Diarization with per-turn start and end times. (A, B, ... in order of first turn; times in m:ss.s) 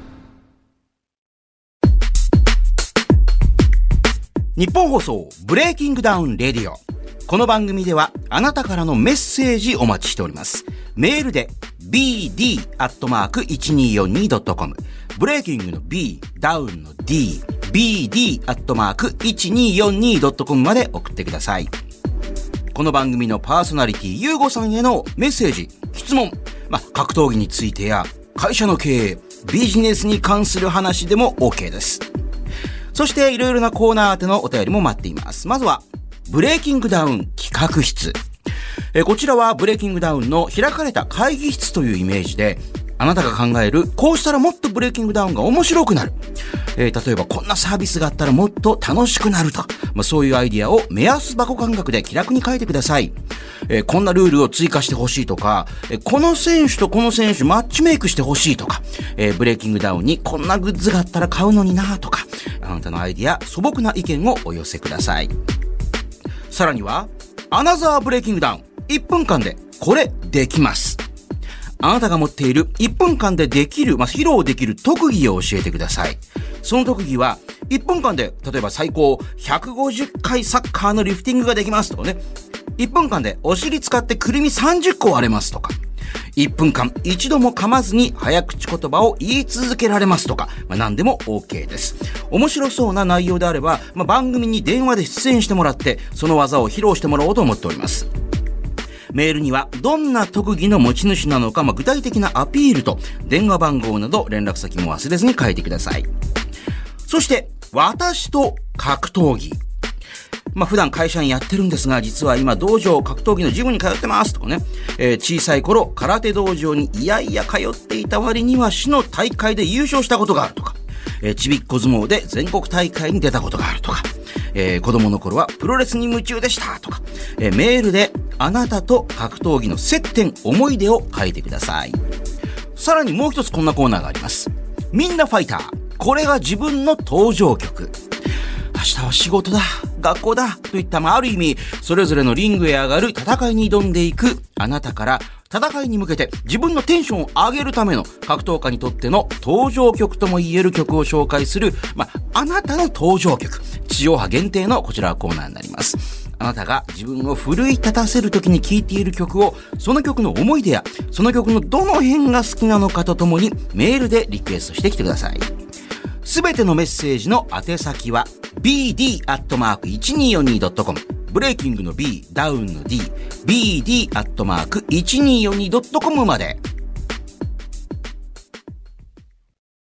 0:04.6-0:21.7 A
0:22.7-0:32.0 A
0:32.9-0:38.2 A
0:38.9-0:46.2 A
0:46.8-0:53.2 A
0:53.7-1:05.3 A
1:06.5-1:11.0 A
1:11.8-1:22.2 A
1:22.8-1:25.8 A
1:26.4-1:38.1 A
1:39.1-1:46.1 A
1:47.1-1:49.6 A
1:50.5-2:12.0 A
2:12.8-2:18.0 A
2:18.7-2:45.5 A
2:46.2-2:56.6 A